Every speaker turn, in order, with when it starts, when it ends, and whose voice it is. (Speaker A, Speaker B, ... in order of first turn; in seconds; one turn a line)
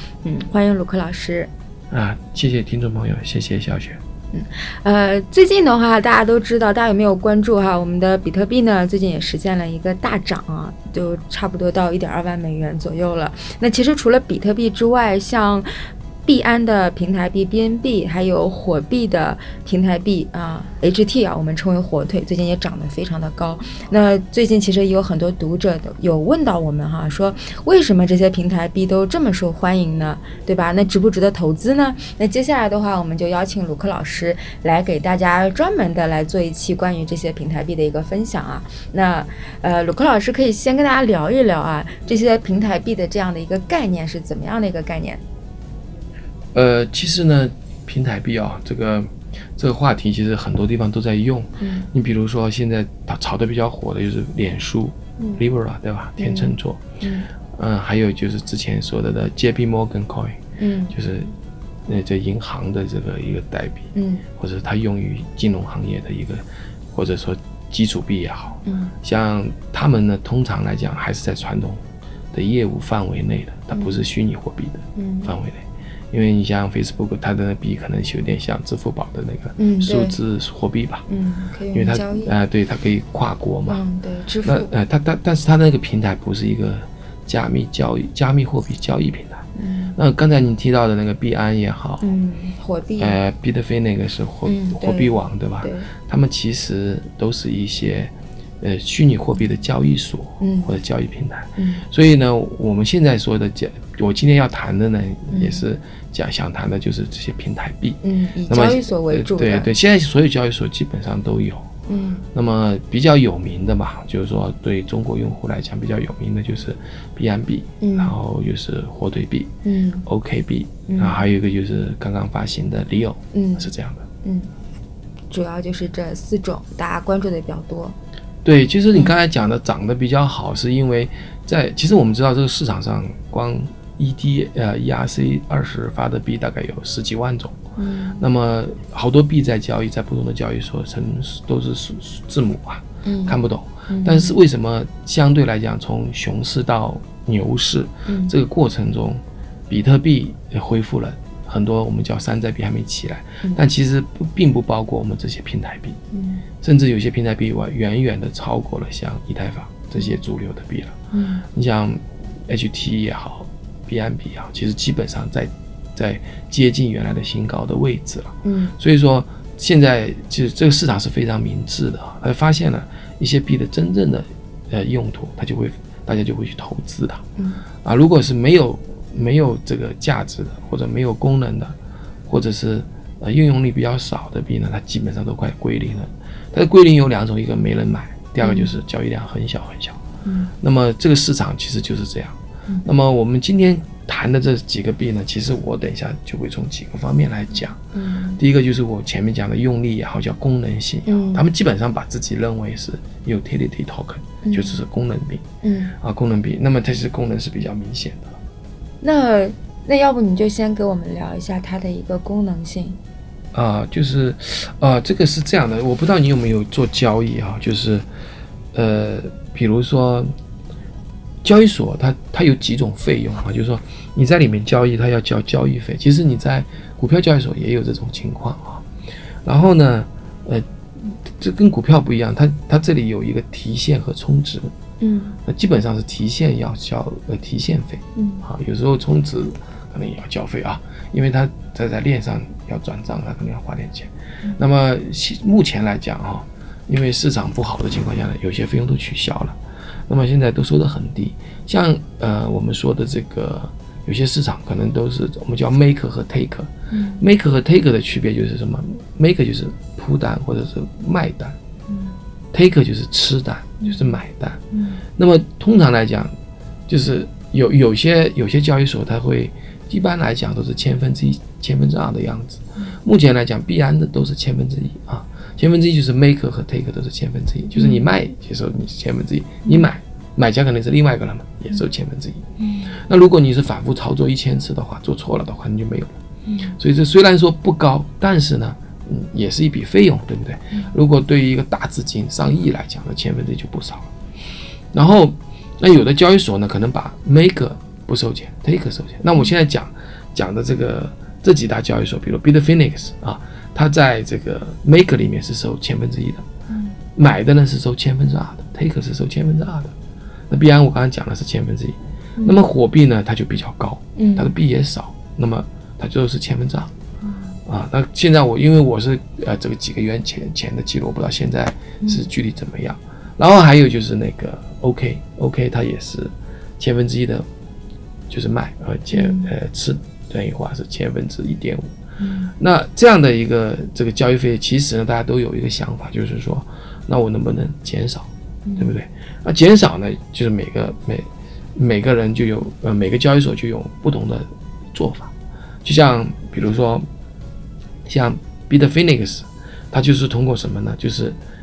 Speaker A: 0.2-1.5
Speaker B: 1.9-4.0
Speaker A: 4.3-15.7
Speaker A: 16.2-45.2
Speaker B: 46.5-56.8
Speaker A: 51.6-51.9
Speaker A: 55.2-55.4
Speaker A: 56.2-57.3
Speaker B: 57.6-60.4
Speaker A: 60.6-60.9
Speaker B: 60.9-61.3
Speaker B: 61.9-81.0
Speaker A: 64.0-64.3
Speaker A: 68.7-69.0
Speaker A: 73.7-74.0
Speaker A: 75.0-75.3
Speaker A: 79.6-80.2
Speaker A: 81.1-82.3
Speaker B: 81.7-83.8
Speaker A: 83.7-84.7
Speaker B: 84.4-89.5
Speaker A: 89.6-90.0
Speaker B: 90.0-92.1
Speaker A: 92.0-93.2
Speaker B: 93.0-111.7
Speaker A: 94.5-95.9
Speaker A: 100.4-100.7
Speaker A: 101.6-101.8
Speaker A: 105.3-105.7
Speaker A: 108.0-109.7
Speaker A: 111.9-112.3
Speaker B: 112.3-119.5
Speaker A: 117.8-118.1
Speaker A: 119.6-120.1
Speaker B: 120.1-124.1
Speaker A: 120.9-121.2
Speaker A: 123.3-124.5
Speaker A: 125.3-128.0
Speaker B: 128.4-137.6
Speaker A: 137.8-138.2
Speaker B: 138.2-156.0
Speaker A: 143.1-143.4
Speaker A: 143.9-144.3
Speaker A: 148.1-148.3
Speaker A: 156.1-156.4
Speaker B: 156.6-161.0
Speaker A: 161.1-161.5
Speaker B: 161.6-177.2
Speaker A: 168.4-168.8
Speaker A: 177.4-177.6
Speaker B: 177.8-181.8
Speaker B: 182.3-190.0
Speaker A: 188.4-188.8
Speaker A: 190.2-190.5
Speaker B: 190.6-197.8
Speaker A: 197.9-198.4
Speaker B: 198.4-205.4
Speaker A: 201.1-201.4
Speaker A: 204.4-204.8
Speaker A: 205.6-205.9
Speaker B: 206.0-208.4
Speaker A: 209.0-213.0
Speaker B: 213.5-218.1
Speaker B: 218.7-220.3
Speaker B: 221.4-228.8
Speaker B: 229.4-234.7
Speaker A: 235.0-235.4
Speaker B: 235.5-249.6
Speaker A: 238.2-238.5
Speaker B: 250.1-261.6
Speaker A: 256.9-257.2
Speaker B: 262.5-264.6
Speaker A: 263.8-264.2
Speaker A: 264.7-265.0
Speaker B: 265.2-266.3
Speaker B: 266.9-286.1
Speaker A: 277.8-278.1
Speaker A: 282.6-283.0
Speaker A: 286.5-286.8
Speaker B: 286.8-294.1
Speaker B: 294.9-306.4
Speaker B: 307.2-309.9
Speaker B: 310.5-316.9
Speaker A: 314.2-314.5
Speaker B: 317.7-327.4
Speaker B: 328.3-331.9
Speaker A: 329.1-329.5
Speaker A: 332.2-332.5
Speaker B: 332.6-345.3
Speaker A: 338.7-338.9
Speaker B: 345.8-347.1
Speaker B: 348.1-351.4